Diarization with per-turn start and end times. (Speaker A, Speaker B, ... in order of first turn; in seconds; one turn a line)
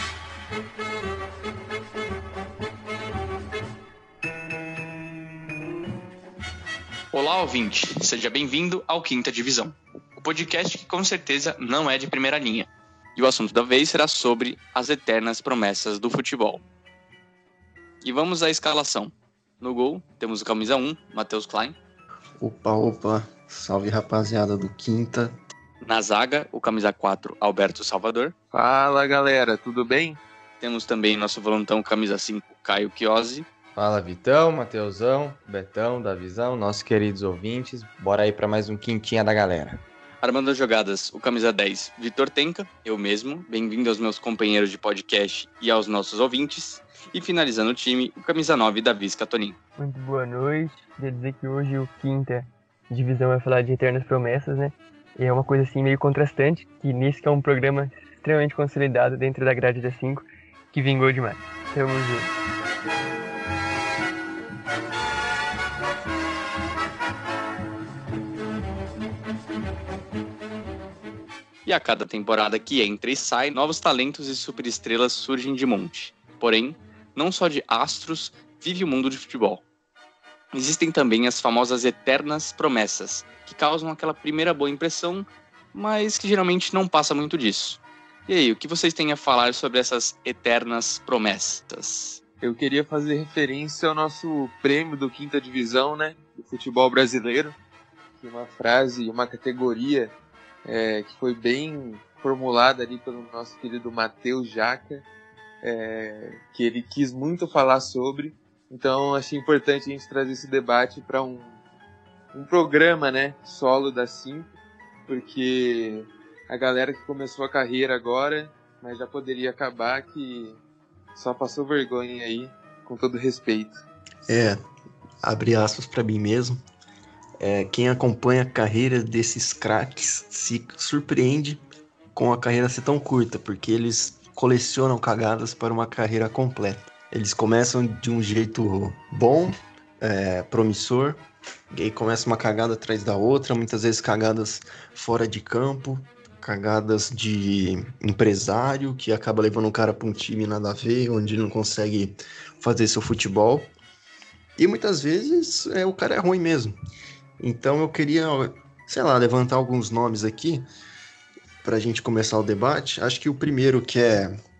Speaker A: 7.1-16.6
Speaker A: 18.0-21.8
Speaker B: 22.4-25.4
Speaker A: 25.8-28.3
Speaker C: 28.5-30.2
Speaker A: 30.6-33.5
Speaker D: 33.8-39.8
Speaker A: 40.2-49.6
Speaker E: 49.8-62.3
Speaker A: 71.7-79.6
Speaker A: 80.5-92.2
Speaker C: 92.4-97.6
Speaker C: 98.2-105.1
Speaker C: 105.6-111.6
Speaker C: 112.3-114.5
Speaker C: 115.1-120.6
Speaker C: 121.1-123.8
Speaker B: 124.3-124.6
Speaker B: 125.2-126.6
Speaker B: 127.4-131.6
Speaker B: 132.1-153.7
Speaker B: 154.6-156.8
Speaker B: 157.4-160.7
Speaker B: 161.6-164.3